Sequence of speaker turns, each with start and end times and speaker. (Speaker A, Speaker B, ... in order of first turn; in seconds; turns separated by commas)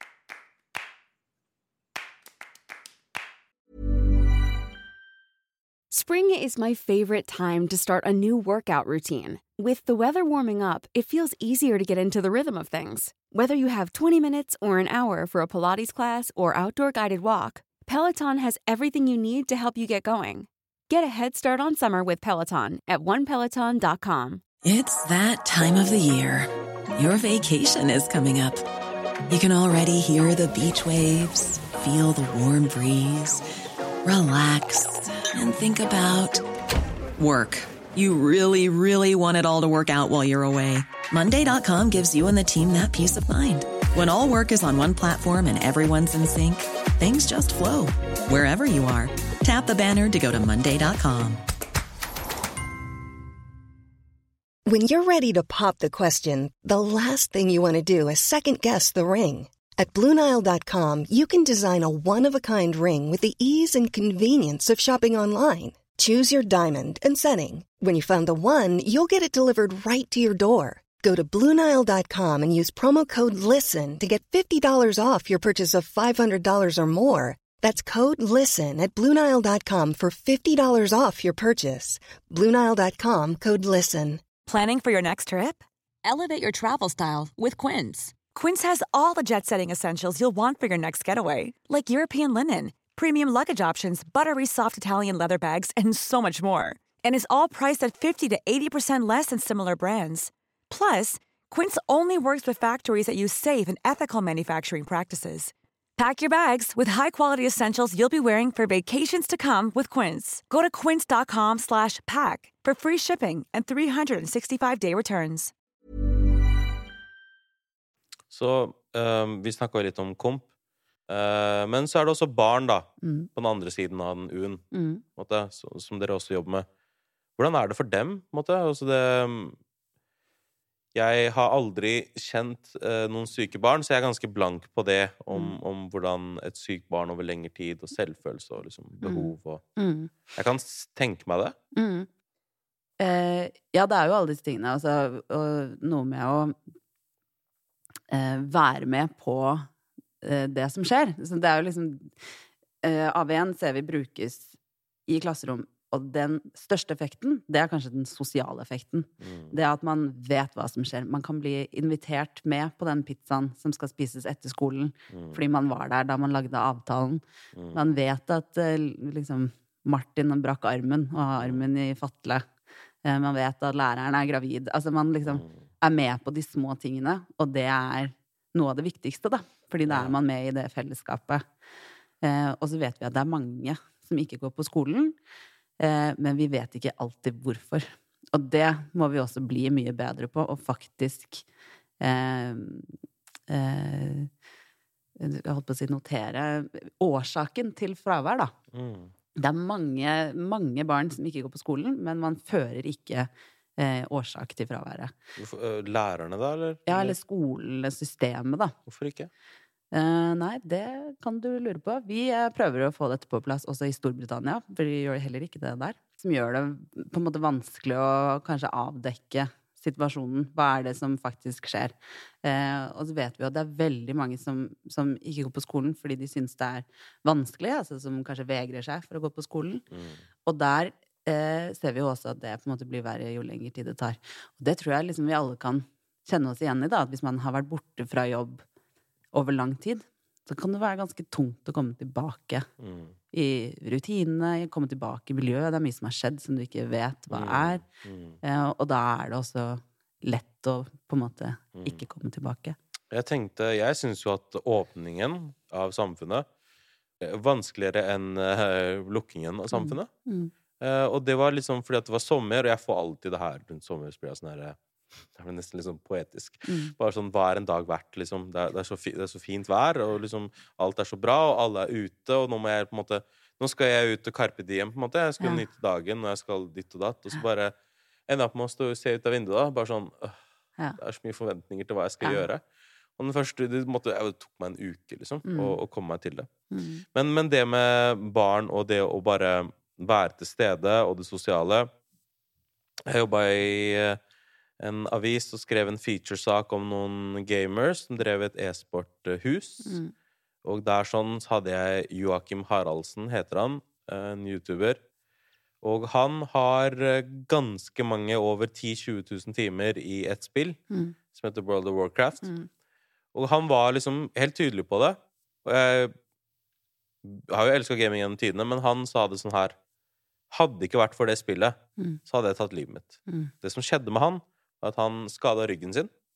Speaker A: 5.9-24.4, Speaker B: 24.6-28.6, Speaker B: 29.3-33.4, Speaker B: 34.0-36.4, Speaker B: 37.2-51.4, Speaker C: 54.6-84.2, Speaker D: 84.4-115.5, Speaker E: 118.3-120.4, Speaker E: 121.1-124.6, Speaker F: 123.0-123.3, Speaker F: 124.7-125.0, Speaker E: 125.2-126.7, Speaker E: 127.4-129.6, Speaker E: 130.9-139.6, Speaker F: 139.0-140.1, Speaker E: 140.3-141.6, Speaker F: 141.8-142.1, Speaker F: 143.0-146.6, Speaker F: 148.1-149.7, Speaker F: 150.2-152.3, Speaker F: 152.8-167.2, Speaker E: 159.2-159.5, Speaker E: 165.1-165.4, Speaker E: 167.5-167.8, Speaker F: 167.7-172.4, Speaker F: 173.0-181.4, Speaker E: 175.2-175.6, Speaker E: 179.9-180.1, Speaker F: 182.2-185.2, Speaker F: 185.8-191.4, Speaker F: 192.0-192.9, Speaker F: 193.5-194.3, Speaker F: 195.2-198.5, Speaker E: 198.7-199.1, Speaker F: 199.4-205.1, Speaker E: 205.4-207.2, Speaker F: 206.9-208.7, Speaker E: 208.8-209.3, Speaker F: 209.9-229.8, Speaker E: 229.9-230.2, Speaker F: 230.4-238.6, Speaker F: 239.3-242.7, Speaker E: 242.8-243.1, Speaker F: 243.3-247.8, Speaker E: 247.3-248.4, Speaker F: 248.4-252.8, Speaker E: 251.7-252.0, Speaker E: 253.1-256.4, Speaker E: 257.2-260.1, Speaker F: 259.7-260.5, Speaker E: 260.8-264.8, Speaker E: 265.4-277.7, Speaker F: 266.6-266.9, Speaker F: 275.4-275.6, Speaker E: 278.3-280.4, Speaker E: 281.0-282.6, Speaker F: 282.2-282.5, Speaker E: 283.2-286.5, Speaker F: 285.4-285.8, Speaker F: 286.7-287.0, Speaker E: 287.1-291.9, Speaker E: 293.1-294.2, Speaker E: 294.8-300.0, Speaker F: 299.8-300.1, Speaker E: 300.6-305.0, Speaker E: 305.8-310.8, Speaker E: 311.3-312.5, Speaker F: 312.4-312.7, Speaker E: 313.3-316.1, Speaker E: 317.2-319.7, Speaker E: 320.5-326.1